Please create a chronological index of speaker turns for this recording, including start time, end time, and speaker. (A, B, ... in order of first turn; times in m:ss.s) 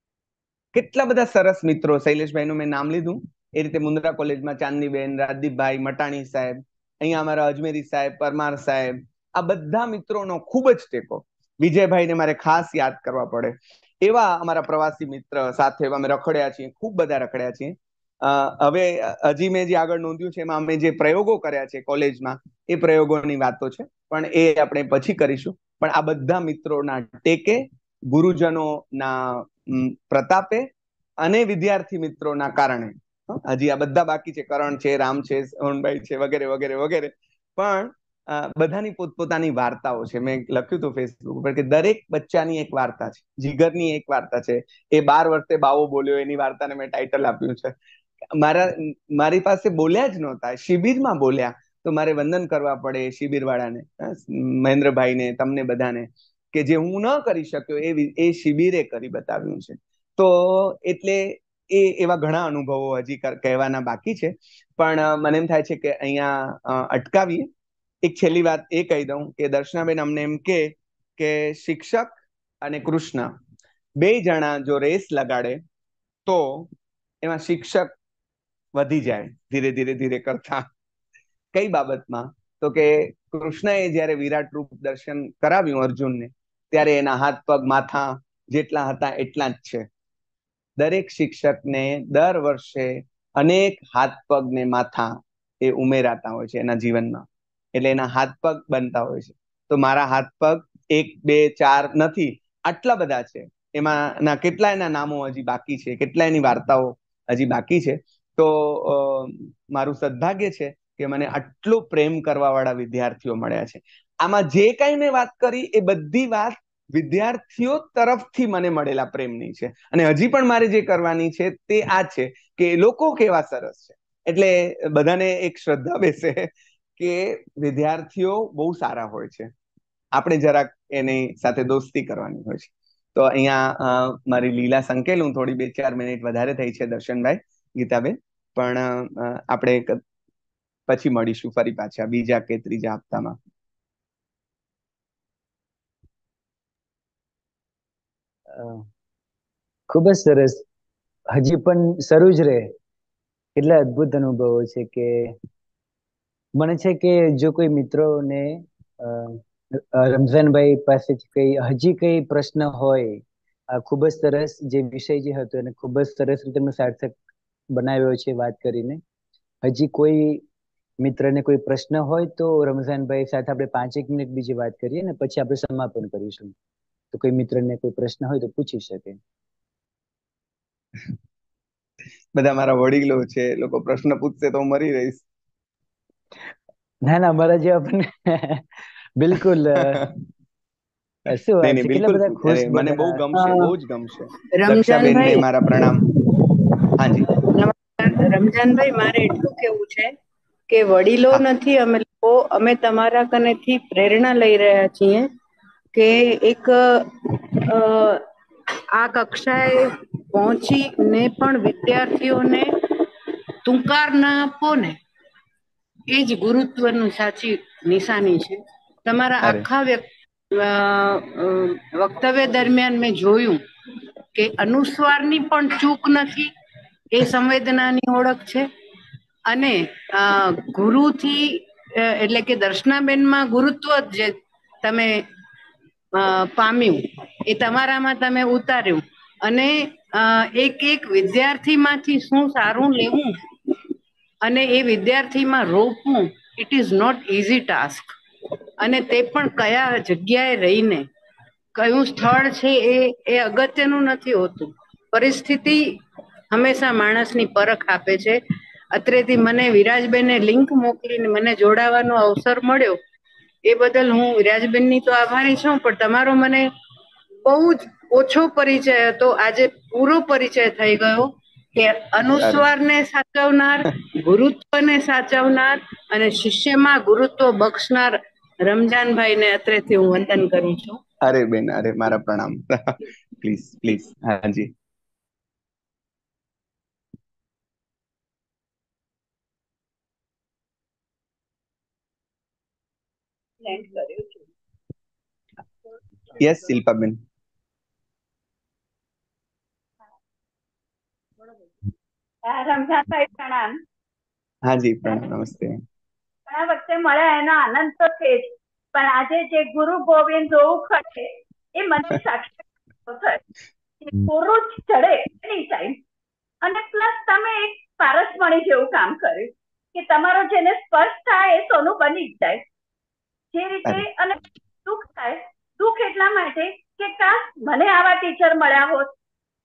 0:00.7-0:30.7 A
0:31.2-0:47.7 A
0:48.4-1:07.5 A
1:08.0-1:13.3 A
1:14.0-1:15.6 A
1:16.2-1:16.7 A
1:17.2-1:17.9 A
1:18.7-1:20.6 A
1:21.5-1:29.8 A
1:30.8-2:09.5 A
2:10.2-2:20.0 A
2:20.9-2:23.4 A
2:28.5-2:28.8 B
2:29.9-2:30.6 B
2:31.3-2:32.7 B
2:33.5-2:35.4 B
2:36.6-2:47.2 B
2:47.7-2:49.0 B
2:49.6-2:50.4 B
2:51.0-2:56.5 B
2:57.1-2:59.2 B
3:02.3-3:05.2 A
3:07.0-3:10.0 B
3:11.3-3:13.2 B
3:11.6-3:16.0 A
3:13.3-3:13.7 C
3:14.5-3:16.4 C
3:17.0-3:17.3 A
3:17.4-3:20.1 C
3:20.7-3:25.3 C
3:25.9-3:28.2 C
3:28.9-3:33.0 C
3:33.6-3:35.0 C
3:36.1-3:43.6 C
3:44.3-3:46.5 C
3:47.1-3:48.7 C
3:49.5-3:55.2 C
3:56.1-4:03.4 C
4:04.4-4:08.1 C
4:08.8-4:11.1 C
4:11.7-4:16.0 C
4:16.5-4:18.4 C
4:18.9-4:23.0 C
4:23.6-4:26.7 C
4:27.4-4:41.0 C
4:32.4-4:32.7 A
4:41.2-4:44.7 A
4:53.6-4:54.4 D
4:56.4-4:57.2 A
5:02.5-5:03.7 D
5:04.6-5:05.8 A
5:06.5-5:11.2 D
5:11.8-5:12.5 D
5:13.1-5:13.4 D
5:14.2-5:16.0 D
5:16.6-5:22.6 D
5:23.5-5:29.1 D